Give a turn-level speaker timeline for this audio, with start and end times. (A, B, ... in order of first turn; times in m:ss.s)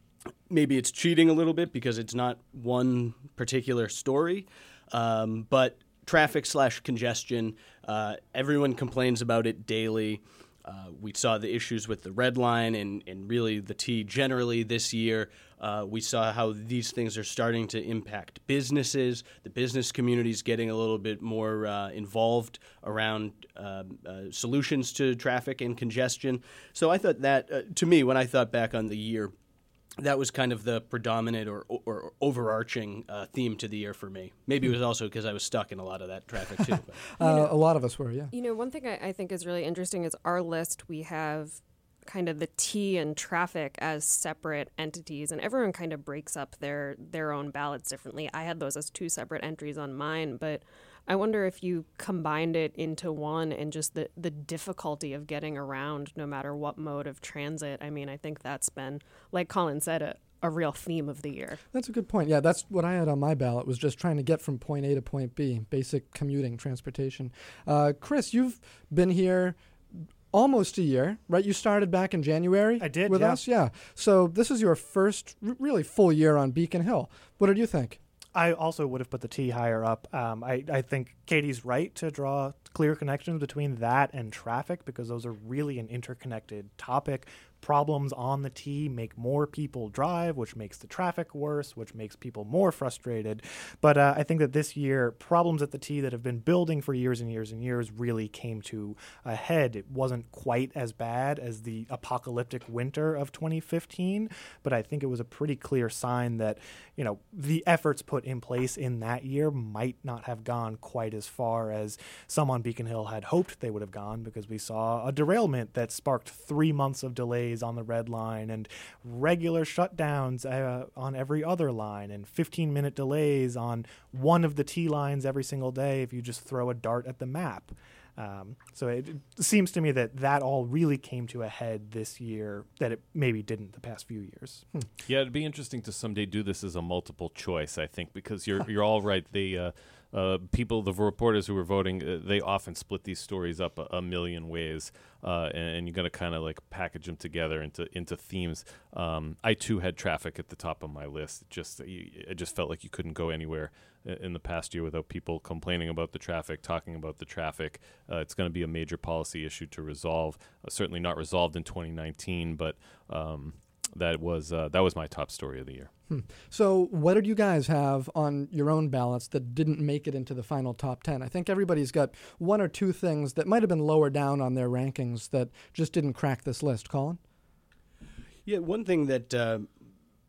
0:00.5-0:29.3 A
0:30.0-0:37.0 A
0:37.2-0:38.3 B
0:37.2-0:37.5 C
0:38.3-1:01.6 C
1:01.7-1:09.6 B
1:10.3-1:18.0 B
1:12.8-1:13.4 D
1:18.3-2:14.7 D
2:15.0-2:45.9 E
2:46.1-2:57.2 B
2:58.4-2:59.7 A